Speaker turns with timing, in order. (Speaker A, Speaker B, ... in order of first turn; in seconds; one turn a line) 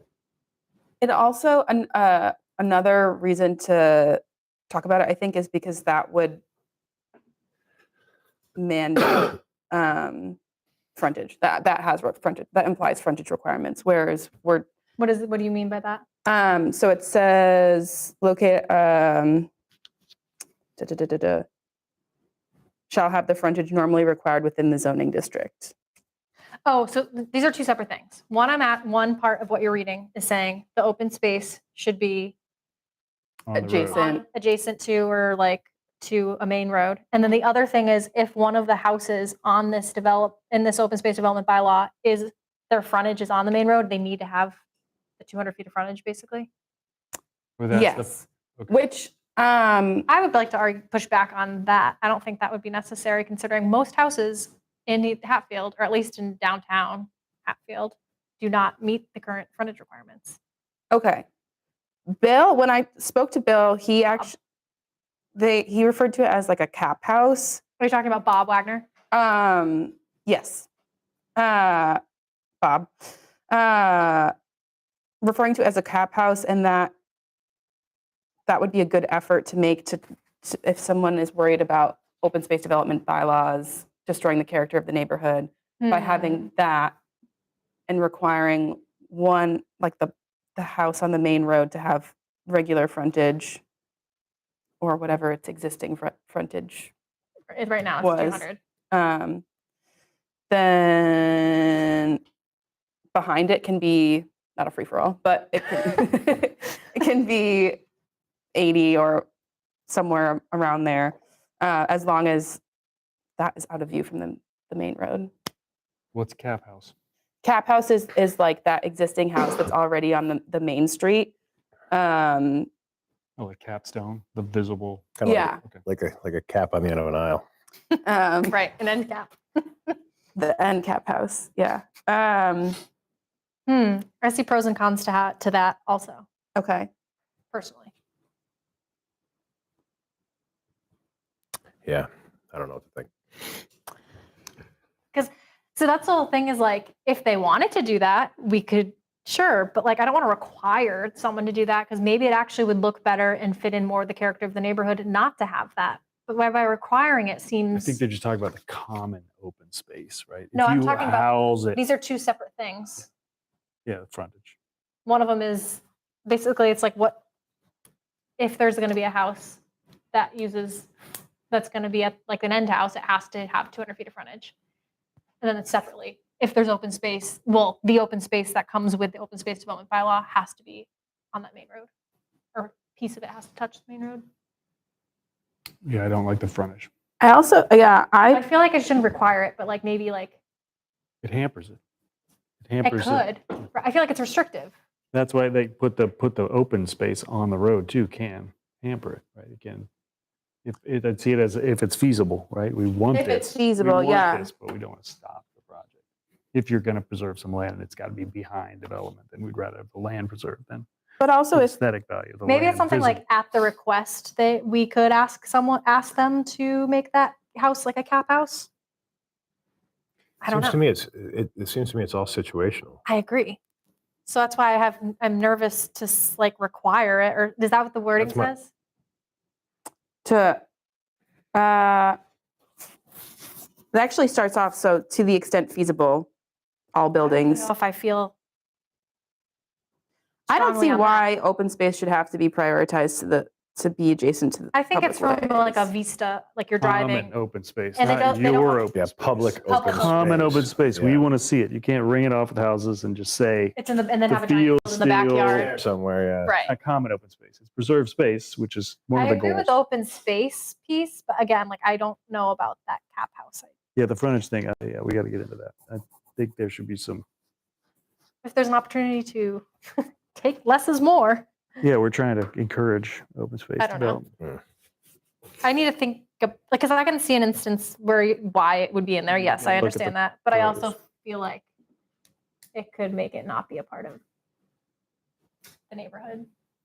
Speaker A: 1.0-6.4
Speaker A: 8.6-10.4
Speaker A: 10.9-14.7
Speaker B: 15.0-16.0
Speaker A: 16.2-19.5
Speaker A: 20.8-21.4
Speaker A: 22.9-25.7
Speaker B: 26.6-32.3
Speaker C: 33.5-34.0
Speaker A: 33.5-34.2
Speaker B: 33.9-44.6
Speaker B: 45.2-46.5
Speaker C: 47.6-48.7
Speaker A: 47.7-50.1
Speaker B: 50.1-60.4
Speaker A: 60.9-61.2
Speaker A: 62.1-64.3
Speaker A: 65.3-67.6
Speaker B: 67.8-68.9
Speaker A: 69.1-70.7
Speaker A: 71.3-72.0
Speaker A: 72.6-74.3
Speaker A: 75.2-76.9
Speaker A: 78.5-87.0
Speaker B: 85.8-86.5
Speaker A: 87.9-93.6
Speaker A: 94.8-96.9
Speaker B: 97.5-98.6
Speaker A: 98.0-99.4
Speaker A: 100.5-102.2
Speaker A: 103.1-107.8
Speaker A: 108.5-109.2
Speaker A: 109.9-112.6
Speaker A: 113.4-115.3
Speaker C: 116.1-116.9
Speaker A: 117.4-121.3
Speaker A: 121.9-122.7
Speaker C: 123.4-125.8
Speaker D: 125.2-127.4
Speaker A: 125.2-125.6
Speaker A: 128.0-128.6
Speaker B: 128.5-129.9
Speaker A: 130.3-132.8
Speaker B: 133.7-136.2
Speaker A: 136.6-136.9
Speaker B: 137.5-137.9
Speaker D: 141.8-143.1
Speaker B: 145.1-158.0
Speaker C: 157.7-161.8
Speaker B: 160.5-163.1
Speaker C: 163.8-164.6
Speaker B: 165.1-167.2
Speaker B: 168.4-169.6
Speaker B: 170.1-170.9
Speaker B: 171.5-174.5
Speaker B: 175.4-181.9
Speaker B: 182.5-184.2
Speaker C: 185.8-186.9
Speaker A: 187.2-188.4
Speaker B: 188.3-190.3
Speaker C: 191.2-191.8
Speaker C: 192.6-193.2
Speaker B: 192.8-194.7
Speaker C: 195.1-199.9
Speaker C: 200.6-205.9
Speaker A: 203.1-204.5
Speaker C: 206.5-210.9
Speaker A: 211.2-211.8
Speaker C: 211.5-213.2
Speaker B: 212.4-218.7
Speaker B: 220.4-220.8
Speaker D: 220.5-223.0
Speaker B: 223.1-223.6
Speaker B: 224.2-228.7
Speaker D: 228.2-228.5
Speaker A: 230.2-230.6
Speaker A: 231.5-232.2
Speaker A: 233.9-236.3
Speaker A: 236.9-237.7
Speaker B: 237.3-238.3
Speaker A: 240.5-245.9
Speaker B: 240.5-241.2
Speaker B: 244.7-247.3
Speaker C: 246.8-253.8
Speaker B: 248.0-248.9
Speaker D: 248.9-251.3
Speaker B: 249.7-250.6
Speaker B: 253.8-255.7
Speaker C: 254.3-255.7
Speaker D: 255.5-256.6
Speaker B: 256.4-256.7
Speaker C: 256.7-259.7
Speaker B: 259.1-263.7
Speaker C: 263.9-267.2
Speaker B: 268.4-271.5
Speaker C: 271.8-274.3
Speaker B: 273.8-274.2
Speaker B: 275.6-281.6
Speaker C: 279.4-280.9
Speaker B: 282.7-284.2
Speaker B: 285.9-286.5